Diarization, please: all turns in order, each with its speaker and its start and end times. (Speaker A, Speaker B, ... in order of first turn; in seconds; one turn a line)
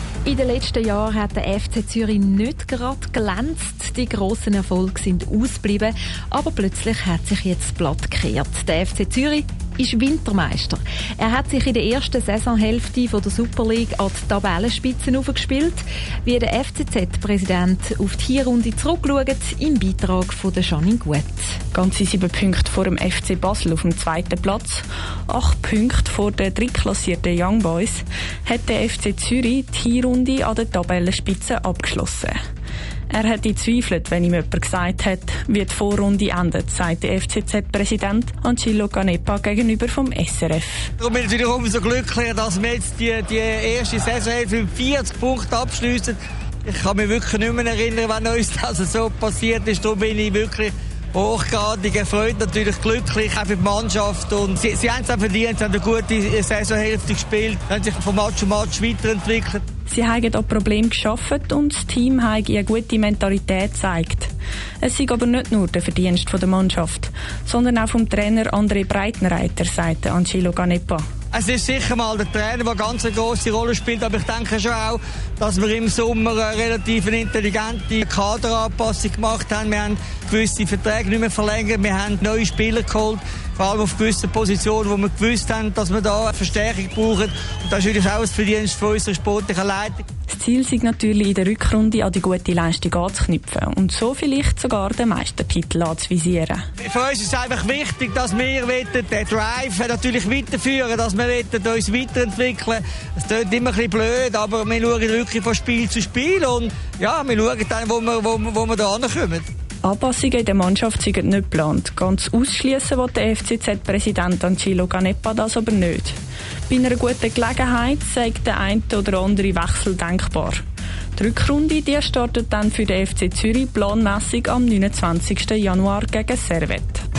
Speaker A: 0.2-21.6
Speaker B: 21.7-32.4
Speaker B: 33.1-40.9
Speaker C: 41.0-59.6
Speaker B: 59.9-71.0
Speaker C: 71.3-90.0
Speaker B: 90.3-96.7
Speaker C: 96.8-109.5
Speaker B: 109.8-116.2
Speaker B: 116.7-120.6
Speaker B: 121.2-127.0